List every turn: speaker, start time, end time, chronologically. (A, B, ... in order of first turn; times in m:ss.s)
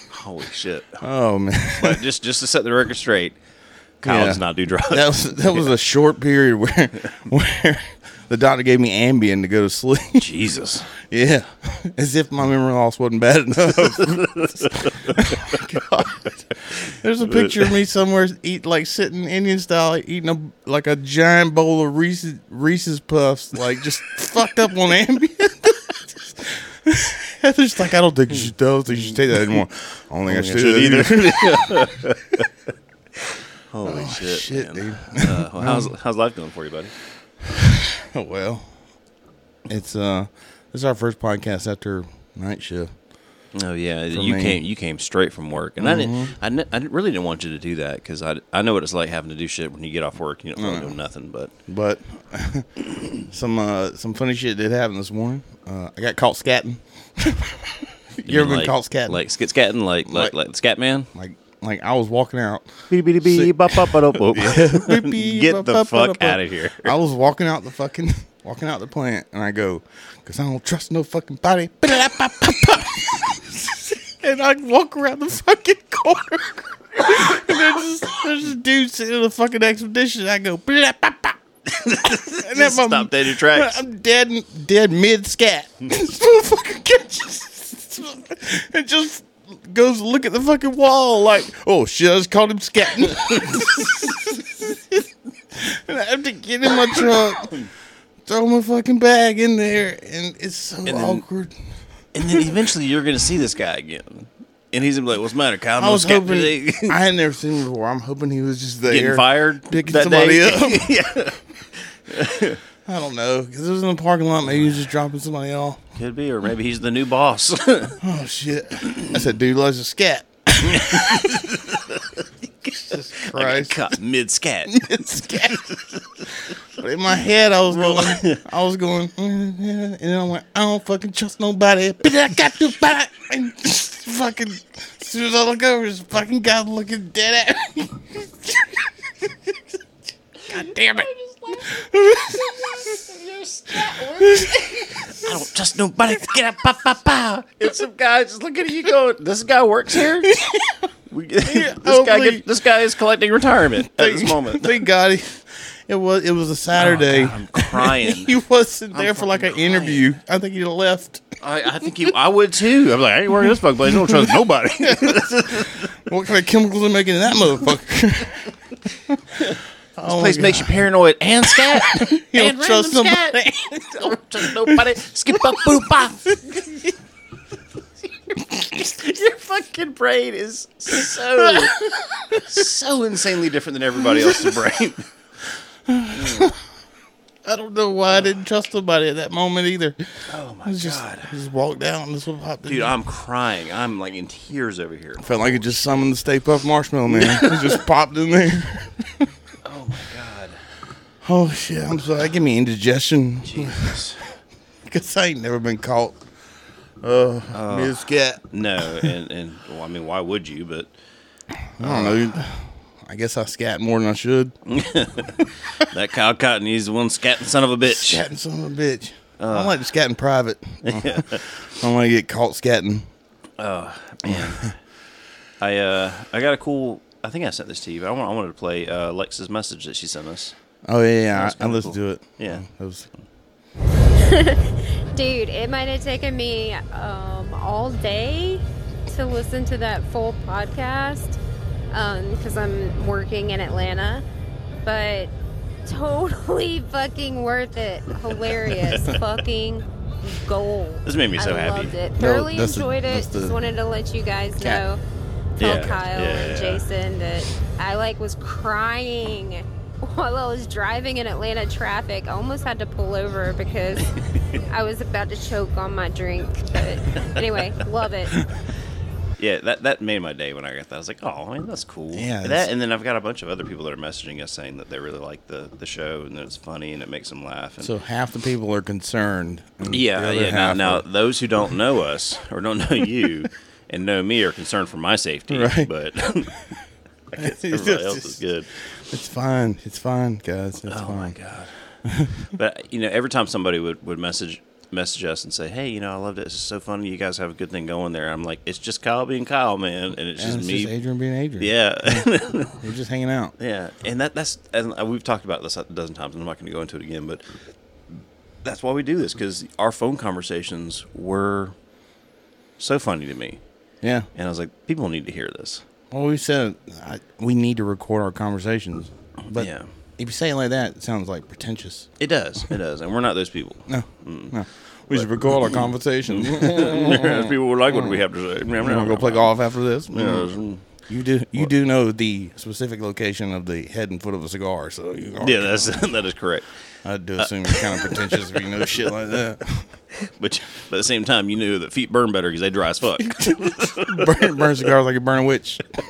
0:00.1-0:01.0 A
0:01.0-0:02.0 B
0:01.7-0:03.4 A
0:04.0-0:05.7 A
0:04.0-0:10.3 B
0:10.2-0:10.9 A
0:11.0-0:32.0 B
0:14.0-0:15.6 A
0:16.8-0:17.6 A
0:28.4-0:29.2 A
0:30.3-0:32.5 A
0:33.7-0:36.9 A
0:33.8-0:35.9 B
0:37.5-0:38.7 B
0:39.7-0:42.9 B
0:43.5-0:51.5 A
0:44.1-0:44.6 B
0:45.8-0:46.4 B
0:50.6-0:51.0 B
0:51.7-0:59.2 B
0:58.3-1:01.1 A
1:00.1-1:00.3 B
1:01.1-1:37.5 B
1:02.9-1:07.0 A
1:21.7-1:23.8 A
1:33.3-1:34.2 A
1:37.0-1:37.7 A
1:38.3-1:41.6 B
1:40.8-1:41.2 A
1:42.1-1:47.0 A
1:42.2-1:42.6 B
1:45.8-1:51.0 B
1:48.9-1:52.6 A
1:52.8-1:55.8 B
1:54.5-1:54.8 A
1:56.0-1:58.0 A
1:58.0-2:01.6 B
1:58.8-1:59.2 A
2:00.6-2:06.3 A
2:02.8-2:03.9 B
2:04.7-2:05.8 B
2:06.6-2:19.6 B
2:07.7-2:08.4 A
2:20.5-2:23.0 B
2:20.6-2:30.4 A
2:24.2-2:25.4 B
2:30.2-2:30.9 B
2:31.1-2:34.8 A
2:31.4-2:32.5 B
2:33.7-2:41.2 B
2:36.8-2:38.4 A
2:38.9-2:40.1 A
2:41.4-2:45.9 A
2:43.9-2:48.6 B
2:49.1-2:49.4 B
2:49.4-2:56.9 A
2:50.0-2:50.8 B
2:51.4-2:56.9 B
2:58.4-3:05.1 A
3:01.5-3:02.4 B
3:04.0-3:04.6 B
3:05.9-3:06.6 B
3:06.1-3:06.6 A
3:07.4-3:10.0 B
3:10.3-3:11.3 A
3:10.6-3:13.0 B
3:12.7-3:15.7 A
3:15.2-3:19.3 B
3:17.1-3:17.8 A
3:19.6-3:20.6 A
3:21.2-3:24.0 B
3:23.4-3:24.4 A
3:24.9-3:26.2 B
3:27.0-3:29.1 B
3:27.5-3:28.0 A
3:28.5-3:30.9 A
3:31.8-3:34.6 B
3:31.8-3:32.3 A
3:34.7-3:38.2 A
3:37.9-3:43.1 B
3:39.4-3:39.8 A
3:40.8-3:41.4 A
3:43.6-3:44.8 A
3:44.2-3:44.6 B
3:45.6-3:50.6 A
3:50.9-3:53.1 B
3:51.3-3:52.6 A
3:54.2-4:01.4 C
4:01.9-4:04.2 C
4:04.8-4:05.3 C
4:05.9-4:15.0 C
4:08.7-4:09.2 A
4:11.0-4:12.0 A
4:12.2-4:13.6 B
4:14.6-4:14.9 B
4:15.6-4:24.1 C
4:15.6-4:16.8 A
4:24.3-4:24.6 A
4:24.7-4:28.4 C
4:29.4-4:37.9 A
4:32.1-4:32.7 B
4:37.8-4:41.0 B
4:39.9-4:46.6 A
4:45.5-4:45.9 B
4:47.3-4:48.7 A
4:47.4-4:48.4 B
4:49.1-4:51.4 B
4:50.9-4:51.9 A
4:52.1-4:52.4 B
4:52.5-5:00.9 A
5:00.4-5:03.5 B
5:01.6-5:02.8 A
5:03.6-5:07.5 A
5:08.6-5:11.8 A
5:12.8-5:13.6 A
5:14.0-5:14.3 B
5:14.3-5:15.8 A
5:16.1-5:22.1 B
5:19.6-5:19.9 A
5:22.2-5:29.6 A
5:23.9-5:28.2 B
5:28.8-5:36.0 B
5:30.1-5:30.9 A
5:35.4-5:36.7 A
5:37.0-5:39.9 B
5:37.4-5:39.2 A
5:40.1-5:44.9 A
5:43.2-5:45.8 B